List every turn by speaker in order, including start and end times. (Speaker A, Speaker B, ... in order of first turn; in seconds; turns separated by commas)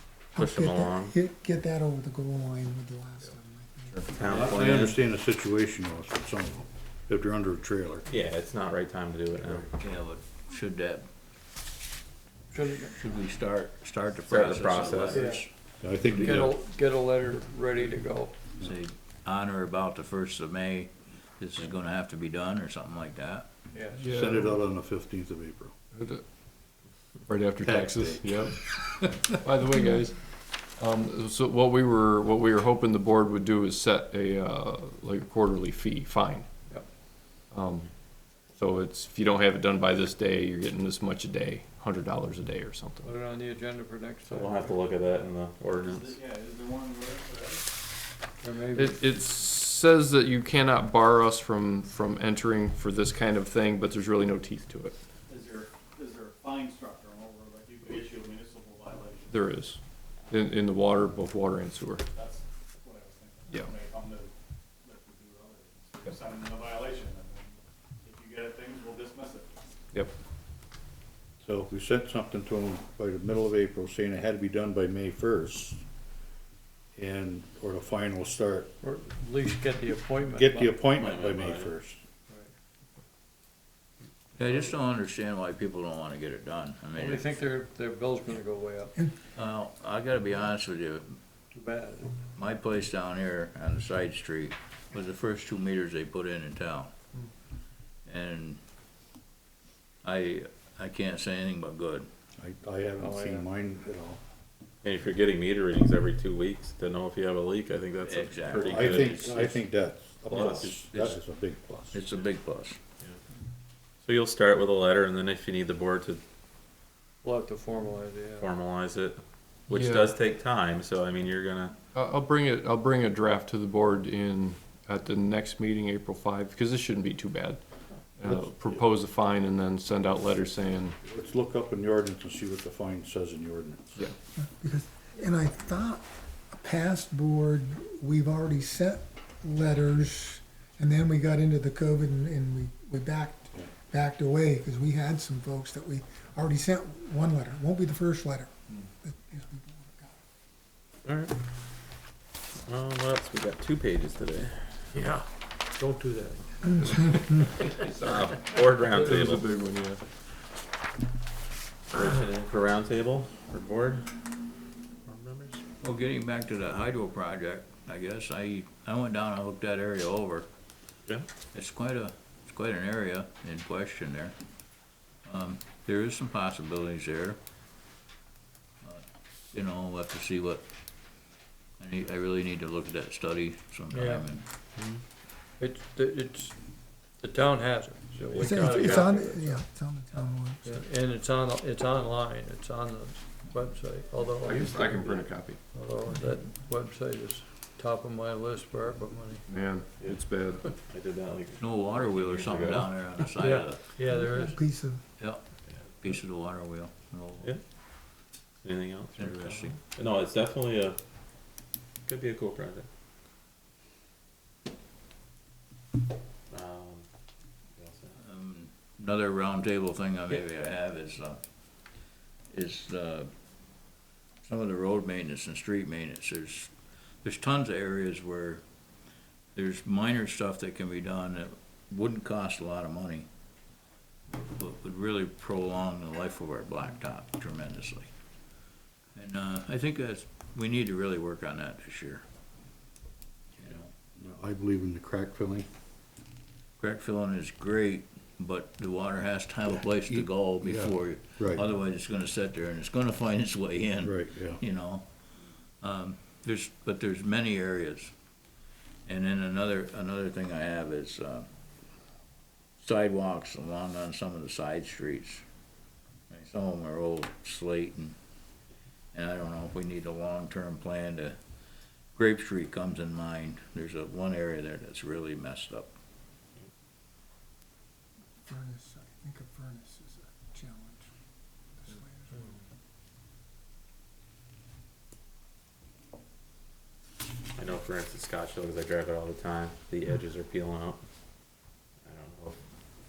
Speaker A: 0.3-4.6, Speaker B: 0.3-1.1, Speaker B: 4.1-5.0, Speaker C: 4.3-8.1, Speaker B: 8.1-9.7, Speaker D: 9.7-11.1, Speaker E: 12.5-13.0, Speaker D: 12.8-15.5, Speaker B: 14.3-15.3, Speaker E: 15.1-15.4, Speaker C: 15.8-16.6, Speaker E: 16.1-18.6, Speaker D: 18.6-23.5, Speaker E: 23.8-24.0, Speaker C: 24.0-25.8, Speaker F: 24.0-24.6, Speaker F: 25.9-26.2, Speaker F: 27.3-30.2, Speaker C: 27.6-29.0, Speaker F: 30.8-36.5, Speaker F: 37.5-37.9, Speaker F: 38.4-43.1, Speaker E: 43.0-44.8, Speaker B: 44.3-46.2, Speaker G: 45.9-47.6, Speaker E: 48.4-49.1, Speaker F: 48.8-55.0, Speaker G: 55.3-59.4, Speaker F: 59.3-62.0, Speaker G: 62.1-64.3, Speaker G: 64.8-69.6, Speaker C: 71.4-75.8, Speaker C: 77.0-78.7, Speaker E: 78.8-80.8, Speaker C: 80.3-82.0, Speaker B: 81.0-81.7, Speaker D: 84.4-87.4, Speaker E: 86.9-89.0, Speaker D: 89.3-91.2, Speaker E: 91.5-92.2, Speaker D: 92.3-96.9, Speaker D: 98.1-98.6, Speaker D: 100.0-102.1, Speaker C: 102.4-104.2, Speaker E: 103.0-103.5, Speaker B: 104.8-109.3, Speaker D: 108.0-109.6, Speaker C: 108.7-112.0, Speaker B: 110.3-111.0, Speaker D: 110.4-111.2, Speaker D: 111.9-112.8, Speaker B: 114.0-116.2, Speaker E: 117.2-118.5, Speaker B: 118.4-121.8, Speaker F: 119.7-120.1, Speaker F: 122.0-127.6, Speaker F: 128.2-131.0, Speaker C: 128.3-128.8, Speaker C: 131.0-134.1, Speaker A: 134.4-150.2, Speaker B: 151.1-151.3, Speaker B: 152.7-154.9, Speaker E: 154.9-156.7, Speaker F: 156.7-160.0, Speaker A: 156.8-157.4, Speaker B: 158.0-159.5, Speaker B: 161.9-164.1, Speaker B: 165.1-165.6, Speaker D: 165.8-170.5, Speaker D: 171.5-174.3, Speaker D: 175.2-177.4, Speaker D: 178.8-180.7, Speaker D: 181.8-184.4, Speaker E: 183.9-185.0, Speaker E: 185.6-189.6, Speaker F: 188.4-189.0, Speaker A: 188.4-190.8, Speaker E: 190.6-199.5, Speaker F: 194.4-195.6, Speaker F: 199.5-200.8, Speaker B: 200.0-203.5, Speaker D: 201.6-203.9, Speaker E: 203.4-204.8, Speaker A: 204.1-205.0, Speaker D: 205.9-207.5, Speaker B: 208.6-211.0, Speaker D: 209.2-209.8, Speaker B: 212.1-212.9, Speaker B: 216.5-217.1, Speaker B: 217.8-218.2, Speaker D: 218.2-221.4, Speaker D: 222.5-223.3, Speaker D: 224.4-228.6, Speaker D: 229.6-233.3, Speaker D: 234.3-238.1, Speaker D: 239.2-242.2, Speaker D: 243.6-243.9, Speaker C: 244.2-245.7, Speaker D: 246.8-255.1, Speaker C: 250.1-251.6, Speaker C: 254.0-254.6, Speaker D: 255.8-258.1, Speaker D: 259.1-261.5, Speaker D: 262.8-265.4, Speaker D: 266.3-268.1, Speaker D: 269.1-271.4, Speaker D: 272.1-275.9, Speaker A: 278.4-281.1, Speaker A: 281.8-282.6, Speaker B: 287.6-291.0, Speaker B: 292.0-292.6